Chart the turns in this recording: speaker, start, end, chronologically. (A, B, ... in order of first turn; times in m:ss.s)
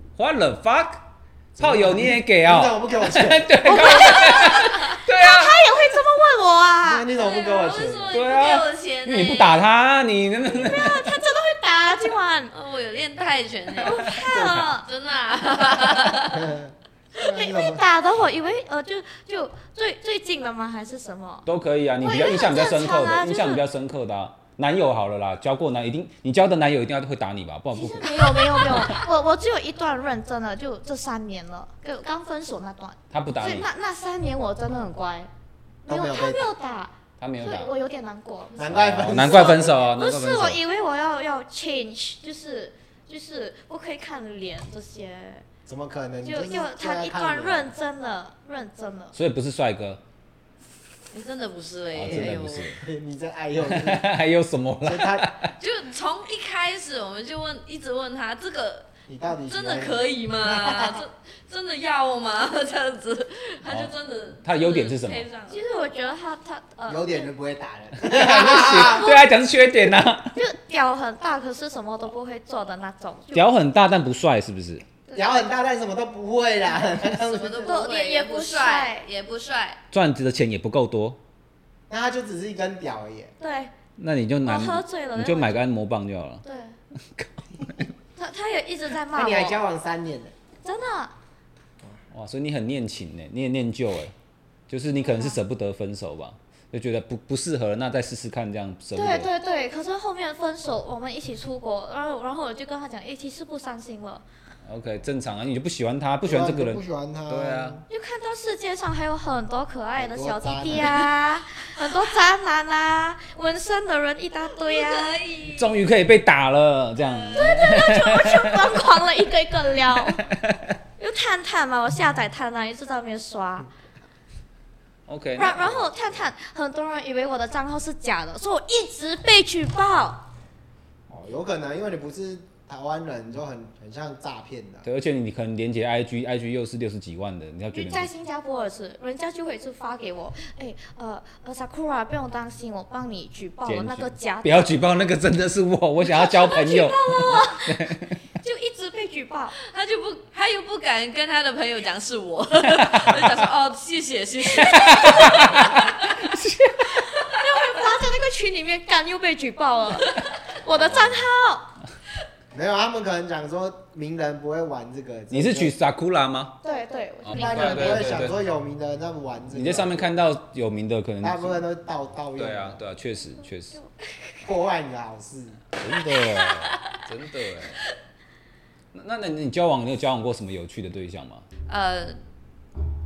0:00.2-0:01.0 A
0:01.5-0:05.6 A
0:01.6-0:03.8 B
0:03.6-0:07.1 C
0:06.8-0:08.1 B
0:07.2-0:09.7 D
0:08.1-0:11.1 A
0:10.5-0:12.5 C
0:12.5-0:16.5 D
0:13.8-0:14.8 C
0:14.2-0:14.7 A
0:16.3-0:17.8 B
0:17.2-0:21.5 C
0:21.4-0:29.0 A
0:22.0-0:23.6 C
0:27.7-0:35.3 C
0:33.1-0:33.7 A
0:35.9-0:36.5 B
0:35.9-0:45.4 C
0:37.2-0:37.7 A
0:38.5-0:39.9 B
0:38.6-0:40.6 A
0:45.6-0:47.7 B
0:46.2-0:49.1 C
0:49.1-0:50.0 A
0:51.1-0:52.7 D
0:51.9-0:52.8 A
0:52.1-0:54.1 B
0:53.6-0:55.5 A
0:54.8-0:55.4 B
0:55.6-0:58.9 D
0:59.1-1:01.0 B
0:59.4-1:05.6 D
1:03.6-1:03.9 A
1:04.4-1:05.2 A
1:05.5-1:07.3 C
1:06.9-1:09.1 B
1:08.0-1:10.4 A
1:08.7-1:09.2 C
1:10.3-1:13.5 C
1:13.3-1:14.8 A
1:15.1-1:17.9 B
1:17.0-1:19.8 D
1:17.6-1:19.0 C
1:19.9-1:21.2 A
1:21.9-1:23.3 B
1:23.4-1:23.7 C
1:24.0-1:26.4 A
1:24.4-1:25.6 C
1:26.4-1:26.7 C
1:27.2-1:27.8 A
1:28.2-1:29.6 C
1:29.1-1:30.3 B
1:30.6-1:31.1 C
1:32.1-1:34.1 A
1:34.7-1:39.3 A
1:35.0-1:35.4 C
1:38.9-1:44.2 C
1:44.6-1:47.8 A
1:46.2-1:47.8 B
1:47.9-1:55.1 C
1:50.0-1:51.1 B
1:54.6-1:55.7 D
1:55.6-1:58.8 A
1:57.0-1:57.4 D
1:57.3-2:00.2 C
2:00.2-2:00.7 A
2:01.0-2:03.7 C
2:05.1-2:06.2 A
2:05.4-2:10.2 C
2:11.1-2:14.8 B
2:14.8-2:18.1 A
2:17.7-2:24.7 C
2:23.6-2:28.2 A
2:26.1-2:29.5 C
2:29.6-2:36.1 D
2:32.7-2:33.4 A
2:34.5-2:37.0 A
2:37.2-2:41.7 C
2:40.7-2:41.3 A
2:42.5-2:45.7 B
2:45.3-2:46.6 A
2:46.6-2:48.1 C
2:47.2-2:48.4 A
2:47.3-2:50.1 B
2:49.5-2:51.6 A
2:51.2-2:52.8 B
2:52.4-2:53.8 A
2:54.4-2:55.6 B
2:55.8-2:57.8 A
2:56.4-2:57.0 D
2:58.9-3:01.4 A
3:01.7-3:02.2 D